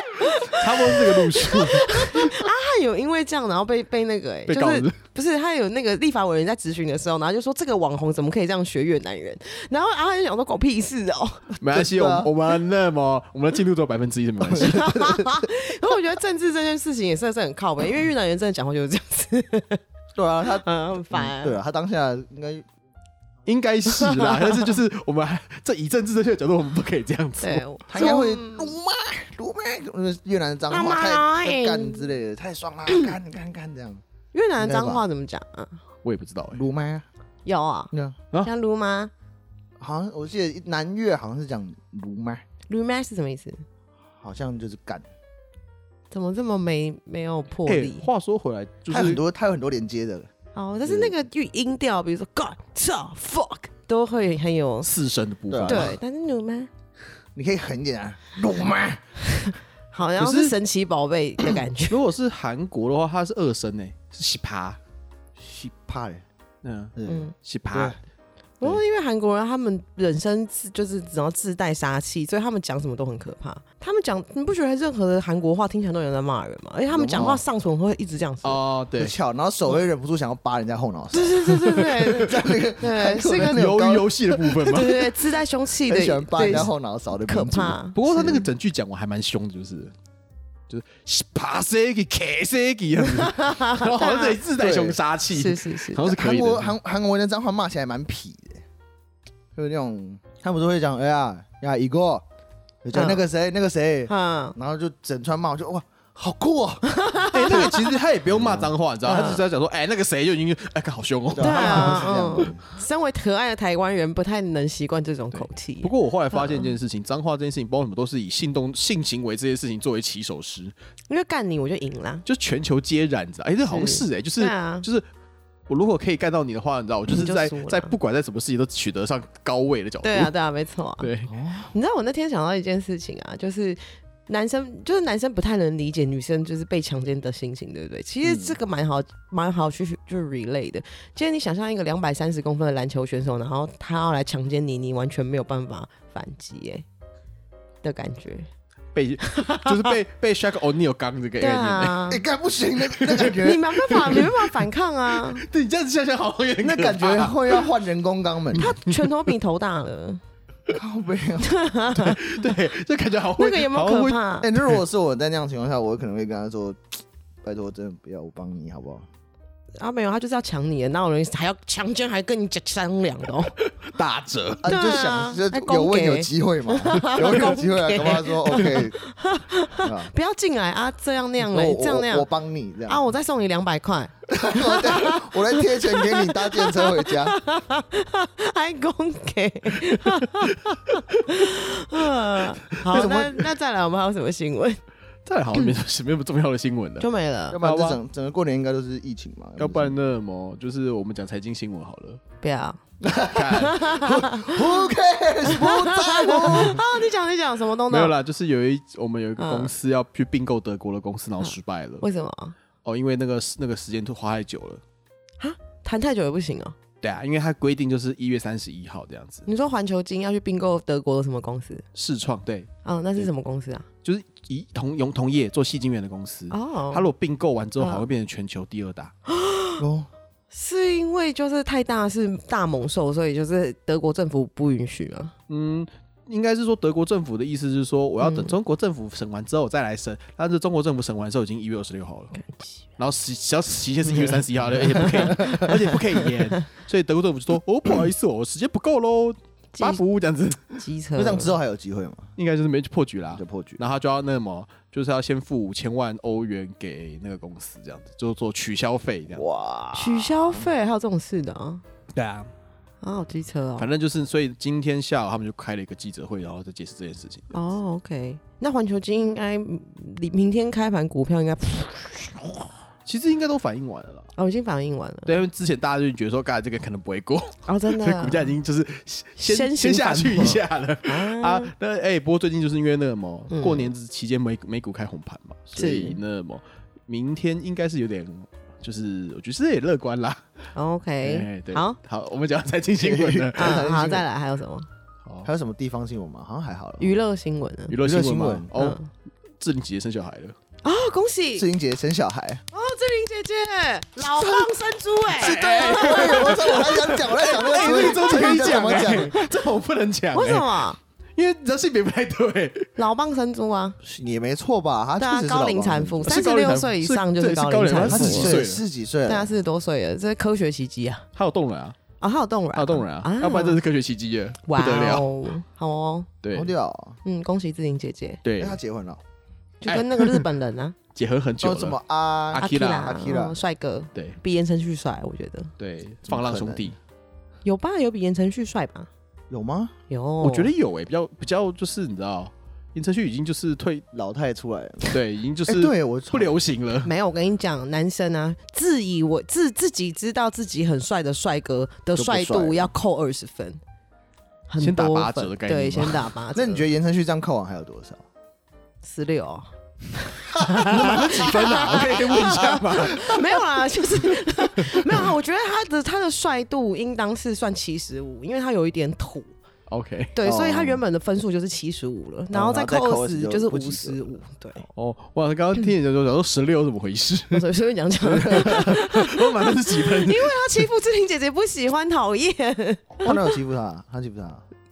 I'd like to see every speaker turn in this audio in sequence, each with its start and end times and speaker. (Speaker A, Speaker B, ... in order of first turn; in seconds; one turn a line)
Speaker A: 0.2-11.6
Speaker B: 0.5-2.3
Speaker B: 4.5-5.0
Speaker B: 11.6-15.3
Speaker C: 11.7-12.3
Speaker A: 14.6-19.8
Speaker C: 20.2-22.6
Speaker A: 20.6-21.6
Speaker B: 23.5-28.1
Speaker A: 23.9-24.7
Speaker A: 27.4-28.7
Speaker C: 27.9-34.0
Speaker A: 30.7-32.1
Speaker A: 34.3-35.8
Speaker C: 34.6-35.0
Speaker B: 36.0-36.6
Speaker C: 36.5-37.1
Speaker A: 37.5-37.9
Speaker C: 37.9-38.2
Speaker A: 38.4-39.1
Speaker C: 39.8-42.4
Speaker A: 42.7-43.6
Speaker C: 44.2-45.0
Speaker A: 46.1-48.1
Speaker B: 47.7-49.2
Speaker C: 48.9-50.3
Speaker A: 50.5-54.9
Speaker C: 50.9-51.1
Speaker B: 54.8-56.0
Speaker C: 55.5-56.0
Speaker A: 55.7-56.7
Speaker C: 57.4-59.0
Speaker A: 59.5-62.0
Speaker B: 60.2-60.5
Speaker B: 61.9-64.8
Speaker C: 65.4-66.2
Speaker B: 66.6-68.0
Speaker C: 67.0-68.0
Speaker A: 67.1-67.3
Speaker A: 68.6-78.6
Speaker C: 76.9-77.4
Speaker B: 78.4-79.2
Speaker C: 79.0-84.6
Speaker A: 81.1-83.6
Speaker B: 81.4-82.3
Speaker B: 83.4-85.1
Speaker A: 84.6-86.7
Speaker C: 85.9-88.5
Speaker B: 86.4-86.7
Speaker A: 87.3-88.0
Speaker B: 87.9-89.9
Speaker B: 90.7-96.7
Speaker A: 93.0-94.4
Speaker C: 94.6-95.0
Speaker A: 95.3-96.1
Speaker C: 96.0-98.6
Speaker C: 99.5-102.2
Speaker C: 102.8-107.0
Speaker A: 102.9-103.2
Speaker A: 104.1-104.5
Speaker A: 106.9-107.9
Speaker B: 107.3-112.5
Speaker C: 108.3-109.4
Speaker A: 109.0-109.4
Speaker C: 111.3-112.7
Speaker A: 111.4-116.7
Speaker B: 115.3-120.7
Speaker A: 121.1-122.2
Speaker B: 122.3-125.0
Speaker A: 123.7-124.9
Speaker B: 125.7-130.3
Speaker A: 127.1-128.0
Speaker A: 130.0-131.1
Speaker B: 131.0-131.3
Speaker C: 131.3-131.7
Speaker A: 131.7-146.8
Speaker C: 138.2-138.6
Speaker A: 147.8-148.5
Speaker B: 148.9-152.1
Speaker A: 149.3-149.7
Speaker A: 151.4-152.2
Speaker C: 152.1-154.2
Speaker B: 152.9-157.7
Speaker A: 153.4-155.4
Speaker C: 156.6-158.7
Speaker B: 158.5-159.0
Speaker A: 158.6-160.2
Speaker C: 160.7-161.6
Speaker A: 161.4-162.2
Speaker B: 161.9-164.8
Speaker A: 163.4-164.5
Speaker C: 164.4-169.1
Speaker A: 169.8-173.6
Speaker B: 173.8-174.7
Speaker C: 174.6-179.0
Speaker A: 174.7-182.3
Speaker B: 177.2-177.4
Speaker C: 179.8-180.1
Speaker C: 181.4-183.1
Speaker A: 182.9-194.8
Speaker C: 184.3-187.4
Speaker B: 189.8-190.5
Speaker B: 192.9-193.3
Speaker B: 195.3-197.1
Speaker A: 197.0-197.6
Speaker C: 197.5-200.0
Speaker B: 197.6-198.0
Speaker B: 199.6-202.2
Speaker A: 202.4-202.8
Speaker C: 203.0-206.8
Speaker B: 203.3-203.8
Speaker A: 203.6-204.6
Speaker A: 205.5-208.2
Speaker B: 207.9-212.0
Speaker A: 209.4-209.7
Speaker A: 211.4-212.6
Speaker B: 212.8-214.8
Speaker A: 215.4-216.8
Speaker B: 217.0-219.5
Speaker A: 219.5-221.8
Speaker B: 221.9-222.7
Speaker A: 222.8-223.9
Speaker B: 224.0-229.1
Speaker A: 226.5-227.1
Speaker A: 227.8-228.1
Speaker A: 229.3-229.8
Speaker C: 229.8-230.1
Speaker A: 230.5-235.3
Speaker B: 235.5-242.3
Speaker A: 238.2-238.6
Speaker A: 242.3-242.7
Speaker B: 243.0-250.7
Speaker A: 245.0-246.0
Speaker A: 249.8-250.0
Speaker A: 250.8-251.6
Speaker C: 251.2-252.3
Speaker B: 252.4-259.4
Speaker C: 253.3-253.8
Speaker C: 259.4-260.7
Speaker A: 259.9-261.8
Speaker B: 262.1-262.5
Speaker A: 263.0-263.9
Speaker B: 263.8-267.5
Speaker A: 267.5-272.7
Speaker B: 273.1-274.3
Speaker A: 274.4-275.4
Speaker B: 275.3-290.4
Speaker A: 277.6-278.6
Speaker A: 279.4-281.7
Speaker A: 283.5-283.9
Speaker A: 285.8-286.2
Speaker A: 290.7-292.0
Speaker B: 291.2-293.9
Speaker C: 293.0-294.3
Speaker A: 293.6-294.9
Speaker C: 295.4-297.2
Speaker A: 297.0-298.0
Speaker B: 297.9-299.0
Speaker C: 298.0-298.7
Speaker A: 298.8-299.1
Speaker B: 299.6-300.6
Speaker A: 300.8-301.7
Speaker C: 301.6-302.6
Speaker A: 302.7-309.3
Speaker C: 304.2-304.7
Speaker C: 305.3-309.4
Speaker B: 305.4-310.8
Speaker A: 310.3-311.0
Speaker B: 311.4-312.9
Speaker A: 313.0-314.0
Speaker C: 314.0-316.4
Speaker A: 315.2-318.6
Speaker B: 316.3-318.8
Speaker C: 318.1-319.6
Speaker A: 319.3-321.3
Speaker B: 321.4-322.0
Speaker A: 322.2-323.8
Speaker B: 322.8-325.3
Speaker A: 324.7-326.3
Speaker B: 326.4-326.7
Speaker C: 326.5-327.2
Speaker A: 327.2-328.4
Speaker B: 328.4-328.8
Speaker C: 328.6-329.2
Speaker A: 329.8-331.0
Speaker B: 329.9-330.4
Speaker B: 331.1-332.0
Speaker C: 331.6-333.6
Speaker B: 332.5-333.2
Speaker A: 332.5-335.7
Speaker B: 335.8-337.0
Speaker C: 336.3-336.9
Speaker A: 337.6-339.1
Speaker C: 339.5-339.9
Speaker A: 340.1-340.7
Speaker B: 340.4-344.0
Speaker C: 344.1-346.6
Speaker B: 345.1-347.1
Speaker A: 347.0-353.8
Speaker C: 352.1-352.9
Speaker A: 354.7-356.9
Speaker B: 354.8-356.3
Speaker C: 356.5-358.2
Speaker A: 359.0-369.5
Speaker C: 360.7-362.6
Speaker B: 360.9-363.6
Speaker B: 364.2-365.3
Speaker B: 369.9-370.4
Speaker A: 370.4-374.9
Speaker C: 370.4-371.0
Speaker C: 372.5-374.2
Speaker B: 374.9-377.6
Speaker A: 377.5-383.4
Speaker C: 378.2-379.0
Speaker B: 378.3-380.6
Speaker C: 383.2-384.6